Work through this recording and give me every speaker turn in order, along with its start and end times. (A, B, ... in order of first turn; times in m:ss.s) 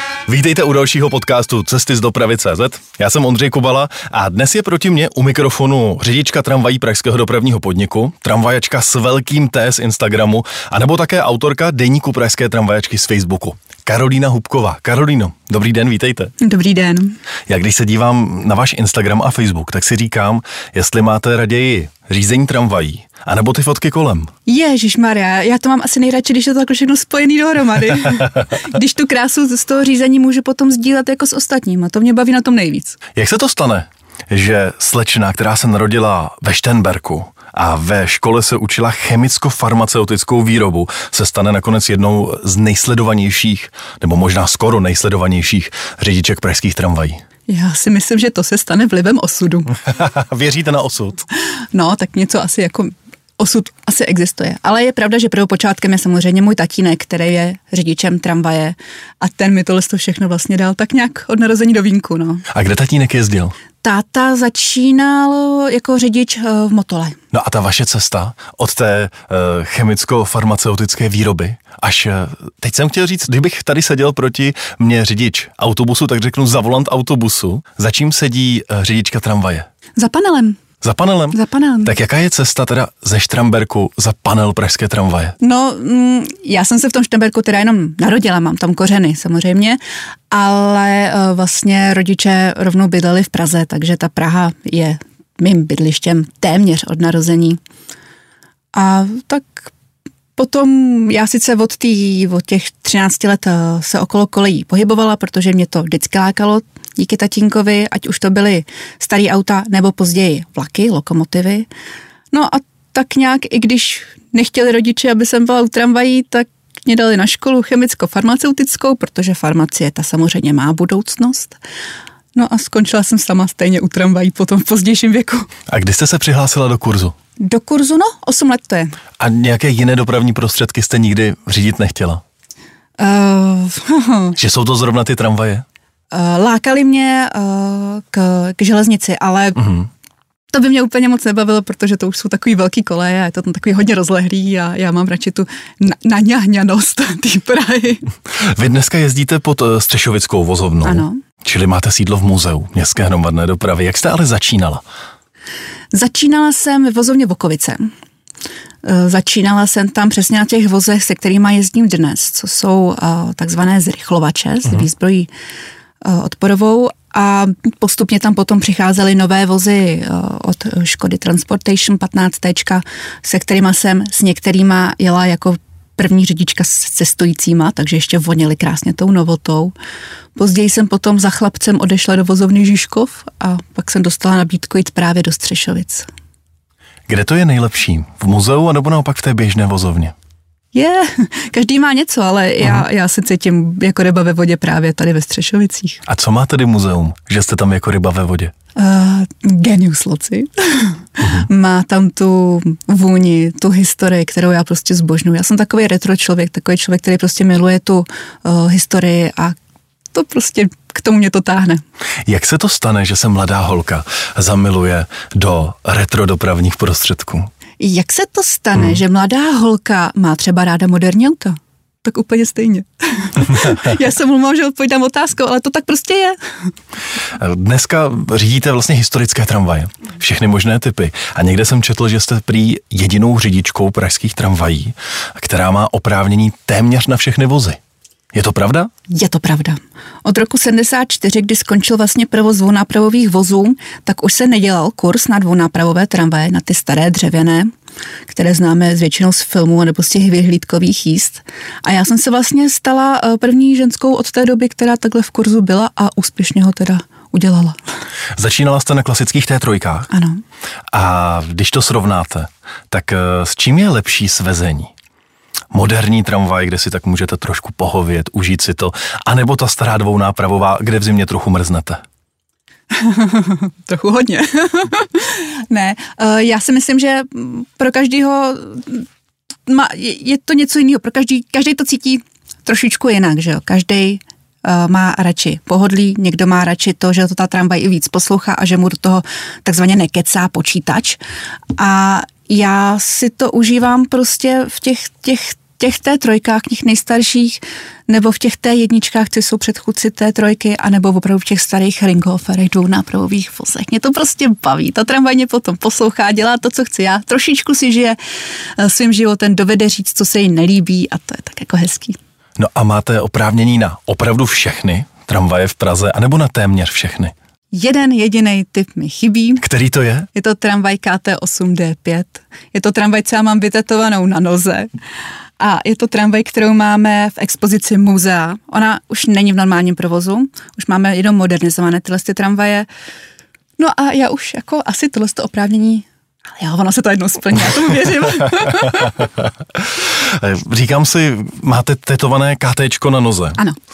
0:00.3-0:16.3 A
0:16.4-0:17.2 B
0:17.5-0:24.3 A
0:24.5-0:33.0 B
0:33.2-0:47.2 A
0:47.5-0:49.7 B
0:49.8-0:51.3 A
0:51.7-1:02.5 B
1:02.5-1:03.6 A
1:03.8-1:07.2 B
1:07.3-1:19.7 A
1:20.0-1:20.6 B
1:20.8-1:25.4 A
1:21.3-1:21.9 B
1:25.4-1:37.6 B
1:38.7-1:39.7 B
1:40.4-1:51.7 B
1:52.3-2:01.6 B
2:02.4-2:05.5 B
2:05.7-2:07.2 A
2:07.4-2:09.0 B
2:09.2-2:12.2 A
2:13.0-2:14.4 B
2:14.4-2:15.7 A
2:16.1-2:19.7 B
2:19.6-2:19.9 A
2:20.5-2:28.1 B
2:28.3-2:34.8 A
2:30.8-2:31.2 B
2:35.9-2:37.9 B
2:38.8-2:45.3 B
2:46.0-2:59.7 B
3:00.4-3:06.1 B
3:07.1-3:10.1 A
3:10.7-3:16.0 B
3:12.6-3:12.9 A
3:16.1-3:18.5 A
3:18.8-3:29.6 B
3:21.2-3:21.5 A
3:30.1-3:31.8 B
3:32.3-3:37.5 A
3:37.8-3:46.4 B
3:47.3-3:57.8 A
3:58.3-3:58.9 A
3:59.1-4:07.7 B
4:08.3-4:17.8 B
4:18.4-4:20.1 A
4:20.1-4:20.4 B
4:20.9-4:24.9 A
4:25.7-4:32.0 A
4:32.9-4:39.1 B
4:39.7-4:51.2 B
4:51.8-5:08.2 B
5:08.8-5:12.2 B
5:12.6-5:17.3 A
5:17.7-5:19.6 B
5:19.6-5:20.3 A
5:20.3-5:24.9 B
5:25.6-5:32.9 B
5:33.8-5:39.3 B
5:39.4-5:43.6 A